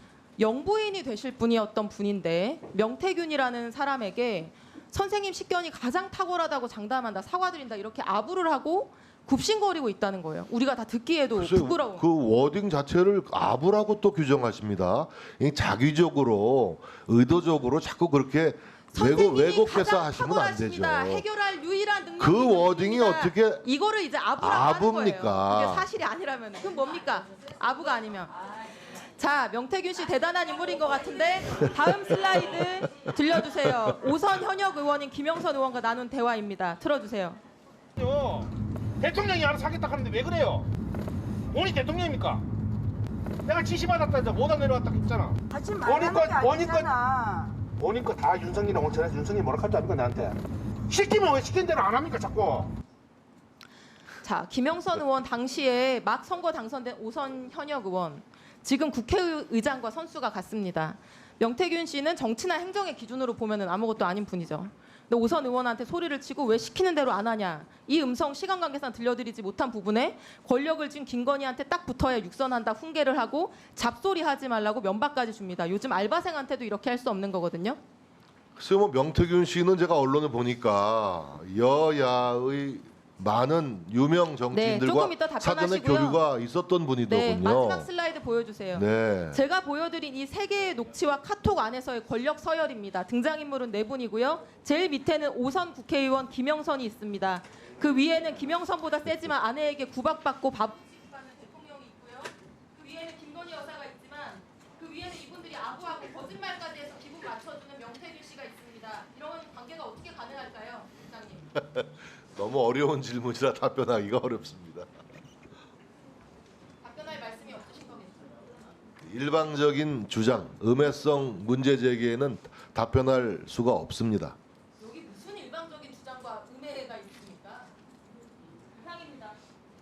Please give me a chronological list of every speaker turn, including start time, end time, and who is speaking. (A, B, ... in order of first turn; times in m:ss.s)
0:00.4-0:12.0 A
0:11.4-0:21.2 B
0:18.9-0:28.4 A
0:22.2-0:23.6 B
0:24.4-0:25.9 B
0:28.9-0:37.4 A
0:38.0-0:40.7 C
0:41.5-0:42.4 C
0:43.5-0:46.9 C
0:45.5-0:47.6 D
0:47.7-0:50.4 C
0:50.9-0:52.7 C
0:54.2-1:17.8 A
1:18.6-1:27.9 B
1:24.5-1:26.2 A
1:27.1-1:51.5 A
1:28.7-1:29.4 B
1:51.5-1:54.9 B
1:56.8-1:58.6 A
1:59.0-2:04.4 B
2:04.8-2:07.7 A
2:08.7-2:09.4 A